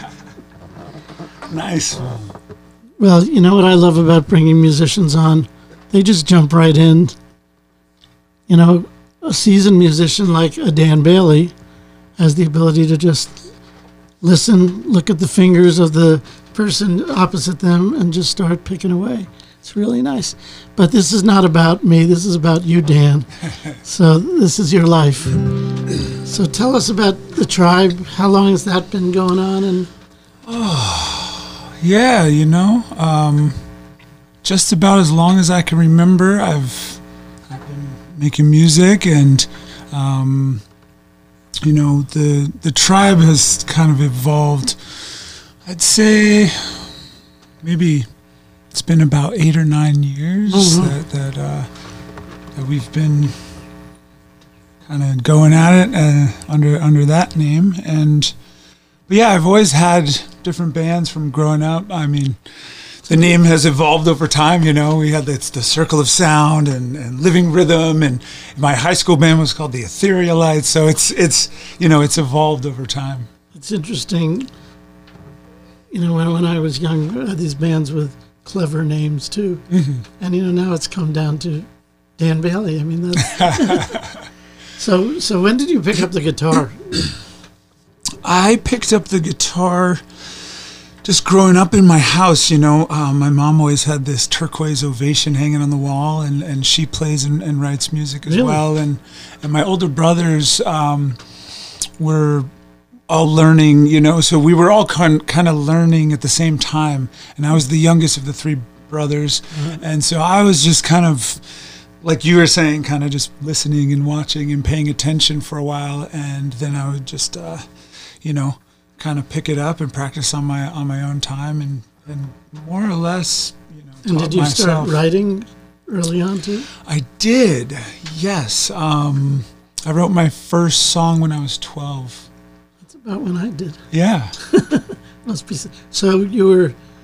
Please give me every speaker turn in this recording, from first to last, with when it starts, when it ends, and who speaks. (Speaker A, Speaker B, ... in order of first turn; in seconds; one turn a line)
Speaker A: 1.5-2.3
Speaker B: 3.0-7.2
Speaker B: 8.5-11.5
Speaker B: 12.2-13.5
Speaker B: 14.2-23.3
Speaker B: 23.8-25.4
Speaker B: 26.2-29.9
Speaker A: 30.5-33.6
Speaker A: 34.4-40.6
Speaker A: 41.6-46.9
Speaker A: 47.6-48.1
Speaker A: 48.7-51.7
Speaker B: 50.5-51.0
Speaker A: 52.5-53.5
Speaker A: 54.9-58.4
Speaker A: 59.1-62.4
Speaker A: 63.0-73.3
Speaker B: 73.5-74.5
Speaker B: 75.9-79.6
Speaker A: 79.7-80.0
Speaker B: 80.2-81.7
Speaker B: 82.2-84.0
Speaker A: 83.3-84.1
Speaker B: 84.8-86.8
Speaker A: 88.2-90.0
Speaker A: 91.0-101.2
Speaker B: 98.3-98.7
Speaker A: 102.0-102.5
Speaker A: 103.1-111.4
Speaker B: 109.5-109.8
Speaker A: 112.0-117.7
Speaker A: 118.2-125.0
Speaker B: 124.0-126.7
Speaker A: 126.8-132.3
Speaker B: 132.8-133.8
Speaker A: 133.9-134.3
Speaker B: 134.5-136.8